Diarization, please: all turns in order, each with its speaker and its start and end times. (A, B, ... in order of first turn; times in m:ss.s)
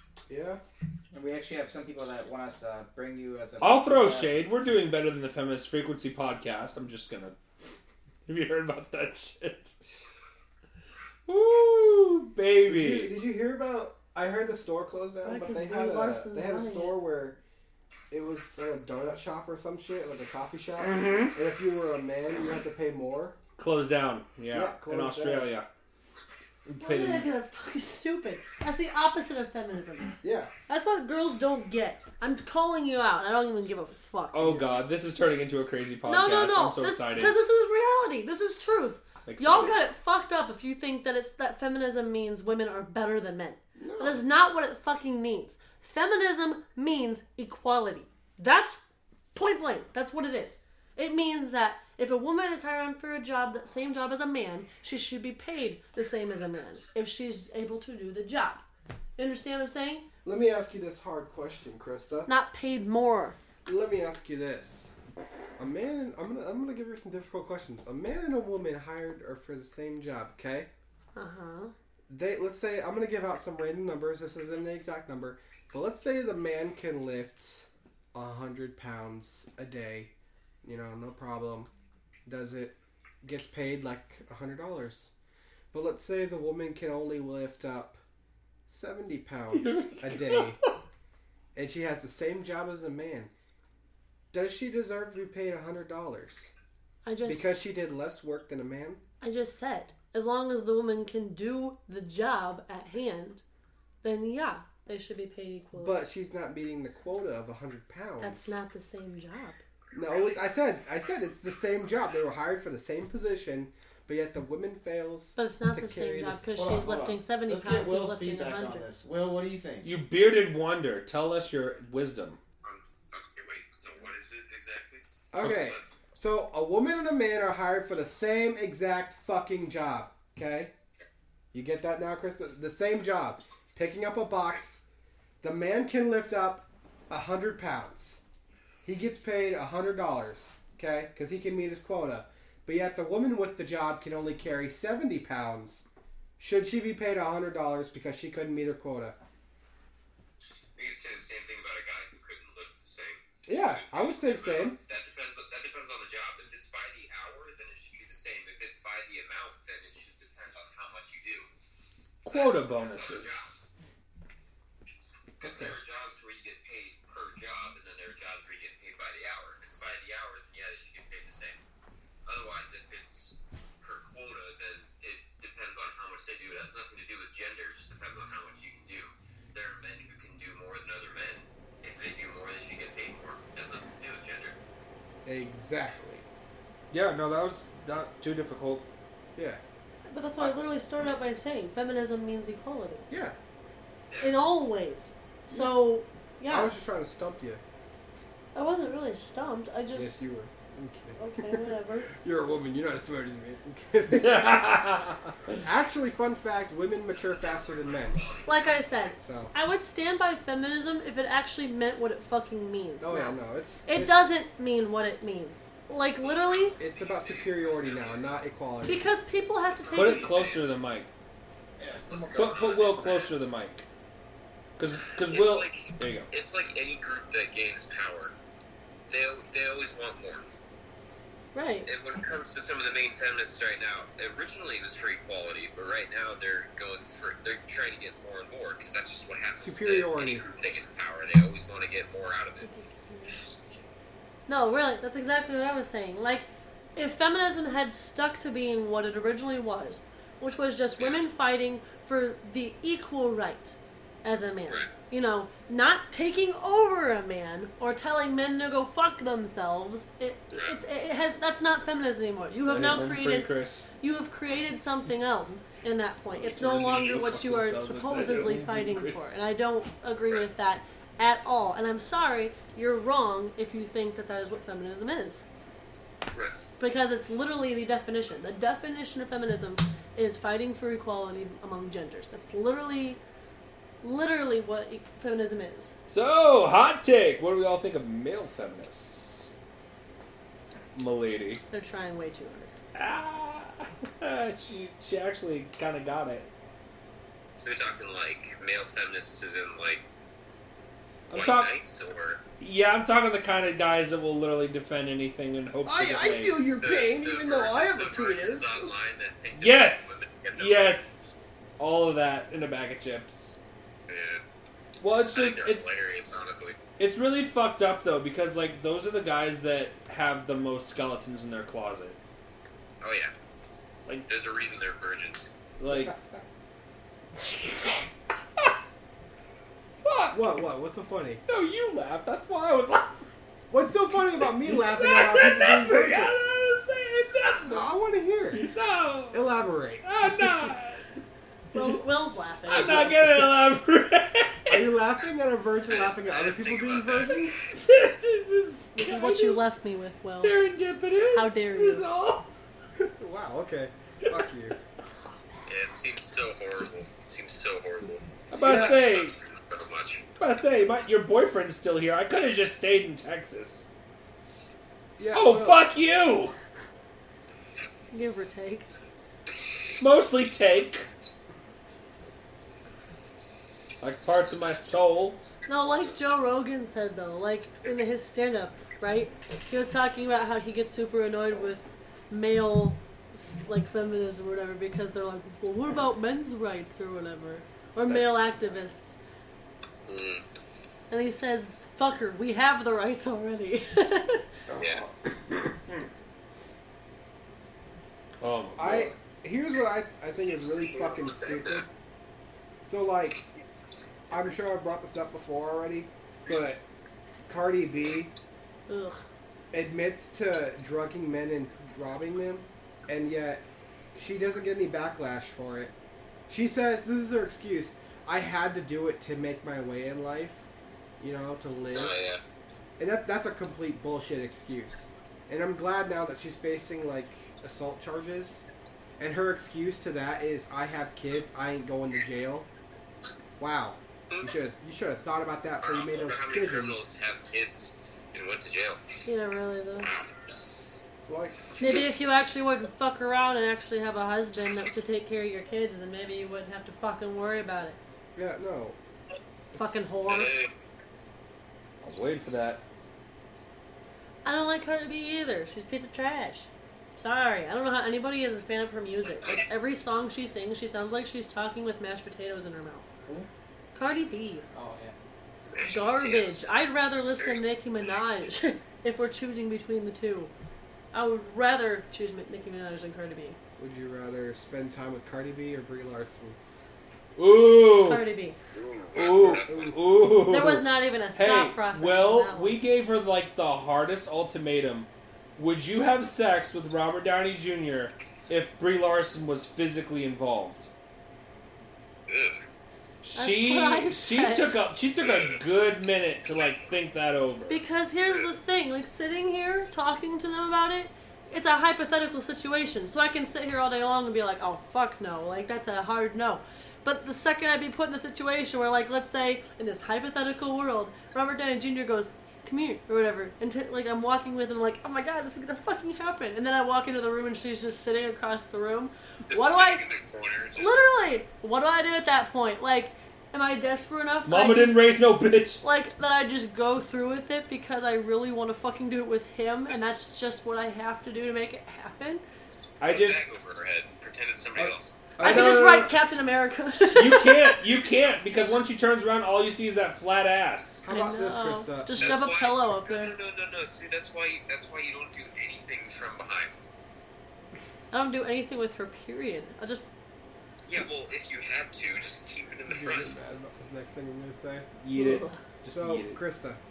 0:00.3-0:00.6 A
0:01.1-0:04.5 B
0:03.6-0:07.4 C
0:08.3-0:09.8 C
0:11.3-0:13.1 C
0:12.7-0:17.4 A
0:15.2-0:17.0 D
0:18.1-0:23.4 A
0:23.6-0:25.7 C
0:24.5-0:25.5 A
0:26.7-0:27.3 C
0:26.8-0:30.2 D
0:30.2-0:30.5 A
0:30.7-0:34.5 D
0:34.3-0:37.5 C
0:34.4-0:34.7 A
0:36.1-0:48.8 D
0:39.2-0:39.8 C
0:43.8-0:44.3 A
0:49.4-0:58.6 D
0:59.2-1:00.1 D
1:00.2-1:02.3 A
1:02.3-1:03.4 D
1:03.7-1:05.0 A
1:05.6-1:10.7 A
1:11.2-1:11.7 D
1:12.1-1:20.1 A
1:20.6-1:21.7 A
1:22.2-1:25.1 A
1:25.7-1:28.0 A
1:28.7-1:30.6 A
1:29.5-1:30.7 C
1:31.6-1:33.3 A
1:34.3-1:36.5 A
1:37.0-1:37.6 D
1:37.2-1:39.0 A
1:39.2-1:43.4 D
1:44.0-1:46.0 D
1:45.8-1:48.6 A
1:48.2-1:49.6 D
1:49.9-1:50.4 E
1:49.9-1:56.5 A
1:55.4-1:58.9 D
1:56.6-1:59.9 B
1:59.8-2:02.4 C
2:02.6-2:05.8 E
2:05.3-2:10.7 A
2:11.5-2:14.8 A
2:15.4-2:18.2 A
2:18.8-2:25.8 A
2:26.4-2:29.2 A
2:30.8-2:41.5 E
2:33.5-2:34.8 A
2:42.2-2:43.5 E
2:42.2-2:43.5 C
2:45.4-2:51.6 E
2:52.3-3:04.6 E
3:05.2-3:06.3 A
3:06.9-3:08.9 C
3:09.4-3:09.6 A
3:10.1-3:13.1 D
3:13.1-3:13.4 A
3:14.1-3:14.4 E
3:14.2-3:16.7 D
3:16.5-3:17.6 A
3:18.5-3:20.2 D
3:19.9-3:24.6 A
3:21.2-3:22.1 D
3:24.1-3:25.6 C
3:25.6-3:28.3 A
3:27.1-3:28.9 E
3:28.5-3:36.8 D
3:29.2-3:29.5 A
3:33.0-3:34.2 A
3:36.2-3:38.3 E
3:36.8-3:39.1 A
3:38.8-3:40.4 D
3:39.8-3:40.8 E
3:39.9-3:41.1 C
3:41.8-3:42.5 B
3:42.0-3:43.3 E
3:42.3-3:43.9 C
3:44.8-3:46.3 C
3:45.3-3:48.3 E
3:49.1-3:50.4 E
3:51.6-3:51.9 D
3:51.9-4:02.7 E
3:59.6-4:00.5 A
4:02.6-4:03.4 D
4:04.5-4:35.4 D
4:11.0-4:11.2 E
4:20.5-4:20.8 E
4:22.6-4:23.9 C
4:26.4-4:29.4 C
4:36.8-4:43.2 D
4:44.0-4:46.0 D
4:46.1-4:49.5 C
4:51.0-4:51.6 C
4:51.7-4:52.7 D
4:52.9-4:56.5 C
4:57.6-5:00.0 E
5:01.3-5:01.8 C
5:01.3-5:02.4 E
5:02.6-5:06.6 C
5:05.8-5:08.9 A
5:06.8-5:11.1 E
5:09.6-5:13.6 C
5:14.1-5:14.4 E
5:15.0-5:15.9 C
5:15.3-5:16.8 E
5:17.0-5:22.2 C
5:23.0-5:23.3 E
5:24.3-5:25.5 E
5:25.8-5:26.2 C
5:27.4-5:28.1 C
5:30.0-5:30.6 C
5:30.3-5:31.4 A
5:31.5-5:33.3 C
5:33.7-5:36.4 A
5:34.6-5:37.9 C
5:37.6-5:38.7 A
5:38.5-5:39.5 C
5:39.3-5:40.0 A
5:40.0-5:41.1 C
5:41.7-5:43.2 D
5:42.7-5:44.9 C
5:42.8-5:43.1 A
5:44.7-5:47.6 A
5:45.9-5:47.7 E
5:47.6-5:49.6 C
5:49.0-5:50.6 D
5:50.3-5:52.5 C
5:51.3-5:52.0 D
5:53.0-5:54.8 A
5:55.1-5:55.7 D
5:55.7-6:00.3 E
5:58.5-5:59.4 C
5:58.6-5:58.9 A
6:00.4-6:03.9 C
6:05.2-6:05.8 A
6:05.3-6:06.6 C
6:08.1-6:08.9 D
6:10.0-6:11.1 C
6:14.0-6:15.4 C
6:15.7-6:23.0 D
6:23.6-6:29.2 D
6:28.1-6:28.7 C
6:30.1-6:30.4 E
6:31.1-6:34.5 D
6:34.7-6:36.1 C
6:34.8-6:35.0 E
6:38.4-6:39.2 C
6:38.8-6:41.9 A
6:40.8-6:41.8 E
6:42.8-6:43.4 A
6:44.3-6:46.8 A
6:47.5-6:48.3 A
6:48.9-6:49.2 D
6:49.7-6:55.9 A
6:56.5-7:00.7 A
7:01.2-7:02.2 A
7:01.9-7:02.4 E
7:03.0-7:08.6 A
7:09.2-7:12.7 A
7:13.6-7:17.1 A
7:15.8-7:19.2 E
7:19.2-7:20.1 D
7:20.0-7:20.4 E
7:21.3-7:22.3 A
7:21.8-7:28.0 D
7:28.4-7:29.0 A
7:29.7-7:30.1 A
7:29.7-7:30.6 D
7:30.3-7:30.7 E
7:32.0-7:32.8 C
7:34.4-7:43.1 D
7:39.4-7:39.6 E
7:44.0-7:44.7 D
7:44.7-7:45.1 B
7:45.7-7:46.7 E
7:45.8-7:50.5 D
7:51.1-7:53.6 D
7:53.8-7:56.6 A
7:57.4-7:58.2 C
7:58.0-7:58.6 D
7:58.7-8:00.0 E
7:59.1-8:10.9 C
7:59.6-8:00.0 A
8:00.4-8:02.8 D
8:12.3-8:12.6 E
8:13.2-8:17.8 C
8:13.4-8:14.7 D
8:15.2-8:15.6 E
8:17.7-8:40.0 D
8:18.3-8:18.6 E
8:39.5-8:41.0 E
8:40.8-8:45.2 D
8:44.4-8:45.8 C
8:45.8-8:52.4 D
8:53.0-8:53.4 C
8:53.0-8:55.2 E
8:54.8-8:56.0 A
8:55.4-8:56.1 C
8:55.4-8:57.8 D
8:57.1-9:01.0 C
9:01.0-9:02.4 A
9:01.1-9:03.4 D
9:02.2-9:06.7 E
9:08.1-9:10.1 D
9:10.9-9:13.4 E
9:12.9-9:14.9 A
9:15.0-9:16.4 C
9:15.1-9:15.6 D
9:15.9-9:16.8 A